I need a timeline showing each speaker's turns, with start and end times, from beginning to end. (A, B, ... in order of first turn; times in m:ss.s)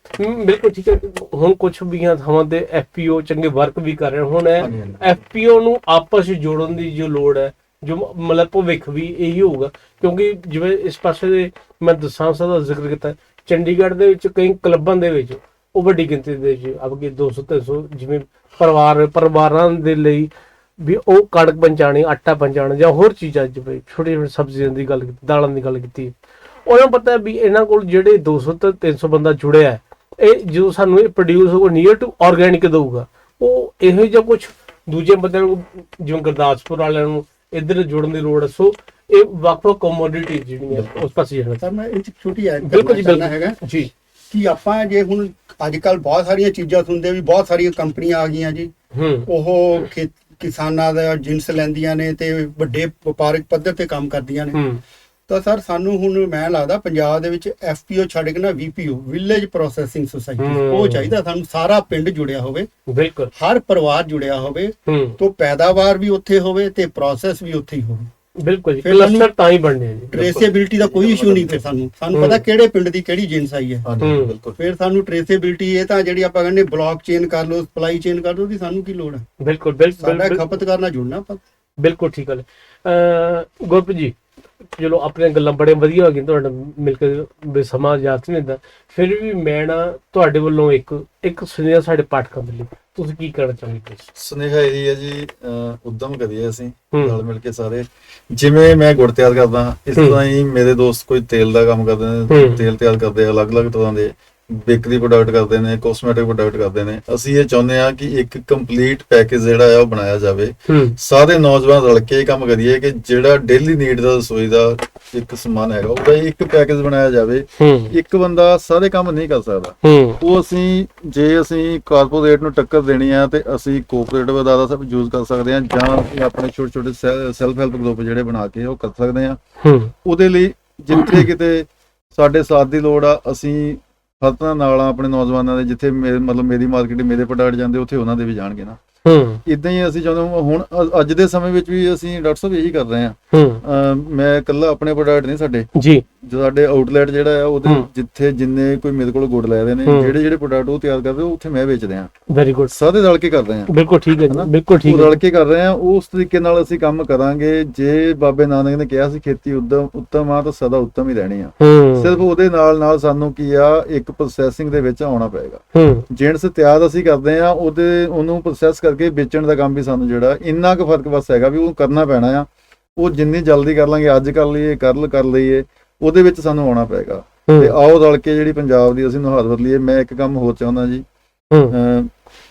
0:00.2-0:26.2 A
0:04.6-0:05.1 B
0:26.7-0:41.6 A
0:41.6-0:43.6 C
0:42.6-0:43.9 A
0:44.3-0:48.7 C
0:48.9-0:49.3 A
0:49.3-0:54.6 C
0:54.5-0:54.8 A
0:55.3-1:02.7 C
1:00.4-1:01.1 A
1:02.9-1:03.3 A
1:03.4-1:08.1 C
1:04.9-1:05.2 A
1:08.4-1:10.1 A
1:08.8-1:09.3 C
1:10.1-1:13.9 C
1:10.1-1:11.7 B
1:12.1-1:12.4 A
1:13.8-1:14.6 B
1:14.0-1:14.3 A
1:14.6-1:19.3 C
1:19.4-1:20.5 A
1:20.0-1:21.4 C
1:21.8-1:24.2 A
1:24.7-1:34.1 A
1:34.2-2:09.4 B
1:36.9-1:37.2 A
1:42.3-1:42.6 A
1:50.7-1:51.0 A
1:57.6-1:58.0 A
1:59.8-2:00.2 A
2:09.6-2:09.9 A
2:10.0-2:18.8 B
2:11.0-2:11.2 A
2:19.0-2:19.4 A
2:19.5-2:32.1 B
2:23.3-2:23.6 A
2:25.8-2:26.0 A
2:29.9-2:30.2 A
2:32.3-2:32.8 A
2:32.7-2:33.7 B
2:33.7-2:35.2 A
2:34.3-3:01.0 B
2:41.6-2:42.2 A
2:45.8-2:46.1 A
2:57.5-2:57.8 A
3:01.7-3:02.1 B